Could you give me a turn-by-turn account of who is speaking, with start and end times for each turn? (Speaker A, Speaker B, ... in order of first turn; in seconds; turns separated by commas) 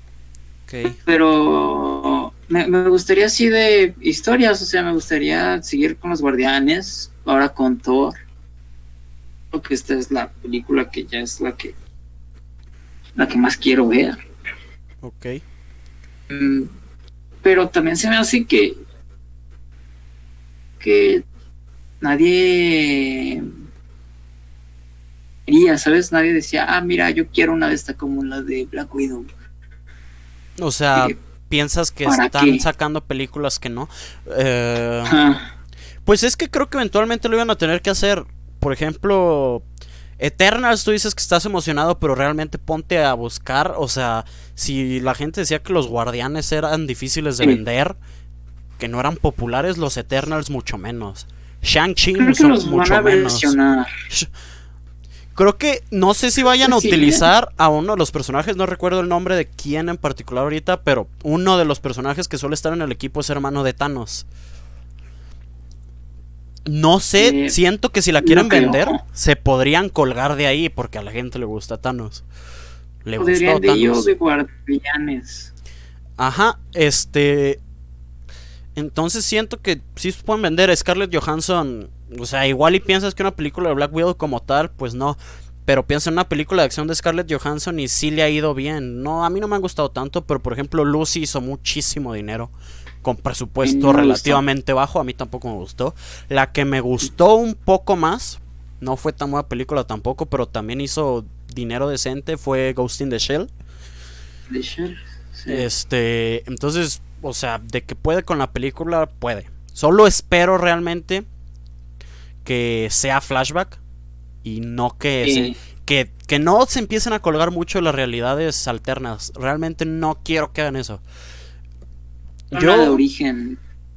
Speaker A: 0.7-1.0, Speaker B: 1.1-8.2, Speaker B: 9.5-11.7, Speaker B: 13.2-14.2, Speaker A: 15.0-15.4, Speaker B: 16.3-16.7, Speaker B: 17.4-18.8, Speaker B: 20.8-21.2, Speaker B: 22.0-23.5, Speaker B: 25.5-29.3, Speaker A: 30.6-35.2, Speaker B: 32.1-32.6, Speaker B: 35.1-35.5, Speaker A: 36.1-39.6, Speaker A: 40.2-48.0, Speaker A: 48.8-53.6, Speaker B: 52.2-53.9, Speaker A: 55.4-64.3, Speaker B: 56.6-57.3, Speaker A: 66.7-72.2, Speaker B: 67.2-67.6, Speaker B: 68.2-69.0, Speaker A: 73.0-74.1, Speaker B: 73.2-75.5, Speaker A: 76.2-77.6, Speaker A: 78.8-92.5, Speaker A: 93.0-103.5, Speaker B: 93.6-94.4, Speaker B: 104.5-105.7, Speaker A: 105.5-111.2, Speaker A: 112.5-113.8, Speaker A: 114.4-121.0, Speaker B: 115.2-115.6, Speaker A: 122.5-123.0, Speaker B: 122.5-123.6